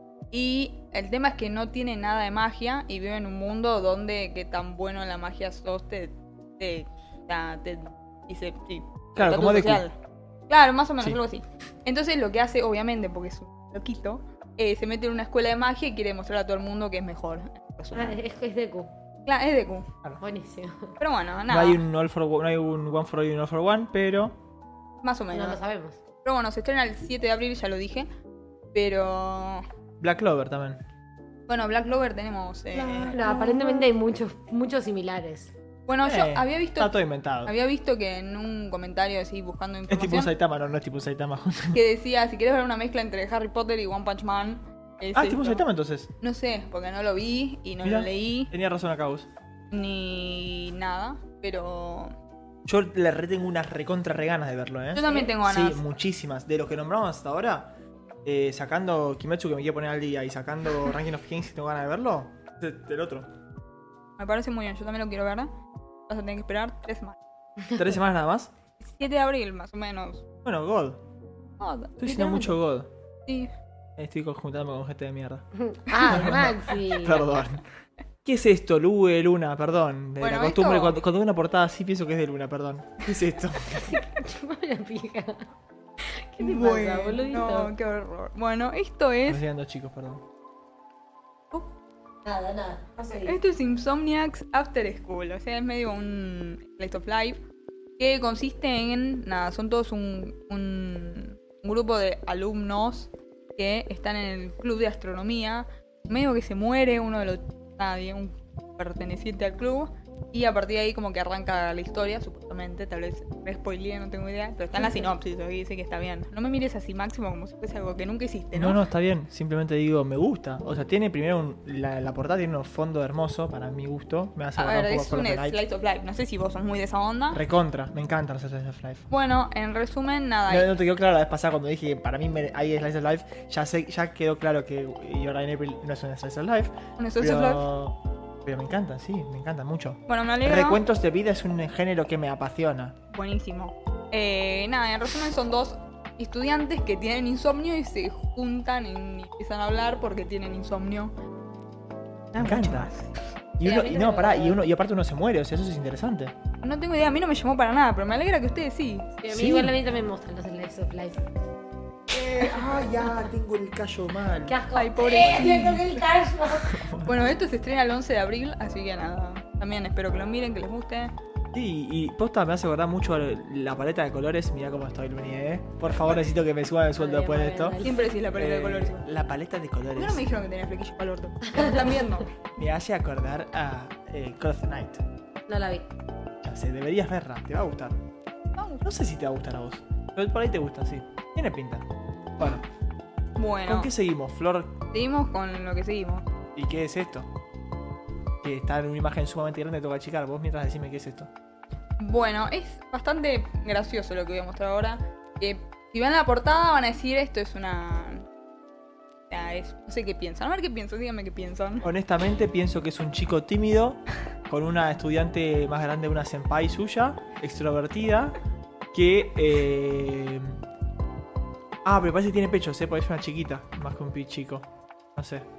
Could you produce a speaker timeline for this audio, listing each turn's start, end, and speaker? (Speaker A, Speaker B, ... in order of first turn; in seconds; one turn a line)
Speaker A: 0.3-9.9
Speaker B: 9.1-9.8
Speaker A: 10.5-18.2
Speaker C: 17.9-18.9
Speaker A: 19.2-19.9
Speaker C: 20.2-20.9
Speaker A: 21.0-21.8
Speaker B: 21.5-24.4
Speaker A: 25.0-25.6
Speaker C: 25.3-26.0
Speaker A: 26.2-28.1
Speaker A: 28.7-29.6
Speaker B: 30.0-30.8
Speaker A: 31.5-33.9
Speaker C: 32.7-35.5
Speaker A: 35.9-36.9
Speaker B: 36.0-37.5
Speaker A: 37.4-40.3
Speaker B: 39.9-41.8
Speaker A: 41.7-45.6
Speaker B: 45.1-46.1
Speaker A: 46.2-48.5
Speaker B: 47.8-49.3
Speaker A: 49.7-52.1
Speaker B: 52.6-57.7
Speaker A: 54.9-55.8
Speaker B: 58.2-63.3
Speaker A: 64.2-65.5
Speaker A: 66.1-67.2
Speaker B: 67.7-68.5
Speaker A: 68.8-70.2
Speaker B: 70.4-71.0
Speaker A: 71.6-72.4
Speaker B: 72.0-72.9
Speaker C: 72.2-72.5
Speaker B: 74.0-77.6
Speaker C: 75.5-77.3
Speaker B: 78.2-84.0
Speaker A: 80.2-81.0
Speaker C: 83.7-85.5
Speaker C: 86.3-87.7
Speaker A: 86.4-89.4
Speaker B: 89.3-90.2
Speaker C: 92.2-93.4
Speaker A: 93.1-97.4
Speaker A: 98.0-118.8
Speaker B: 118.5-125.6
Speaker A: 124.6-127.4
Speaker B: 127.3-129.1
Speaker A: 129.1-130.7
Speaker B: 130.5-143.0
Speaker A: 137.0-137.6
Speaker A: 140.1-140.8
Speaker A: 143.1-151.1
Speaker A: 152.3-153.1
Speaker B: 152.3-152.9
Speaker B: 153.6-156.3
Speaker C: 153.6-154.6
Speaker A: 156.6-159.1
Speaker C: 159.2-161.2
Speaker B: 159.3-159.8
Speaker B: 162.1-164.6
Speaker A: 162.4-162.8
Speaker C: 164.4-166.8
Speaker A: 164.7-165.9
Speaker B: 165.2-165.8
Speaker B: 166.5-167.3
Speaker A: 167.0-171.1
Speaker B: 171.5-177.8
Speaker C: 176.9-178.1
Speaker A: 177.8-179.1
Speaker B: 178.3-180.2
Speaker A: 179.9-182.3
Speaker C: 181.4-182.2
Speaker B: 182.6-185.0
Speaker C: 185.5-185.9
Speaker B: 186.4-188.0
Speaker A: 188.6-188.8
Speaker B: 188.8-191.8
Speaker B: 192.4-192.6
Speaker A: 193.4-193.9
Speaker B: 193.7-194.8
Speaker A: 194.9-196.3
Speaker B: 196.5-197.3
Speaker B: 198.4-201.3
Speaker A: 202.0-208.3
Speaker A: 209.3-211.9
Speaker B: 211.8-218.4
Speaker B: 218.9-220.6
Speaker B: 221.8-225.4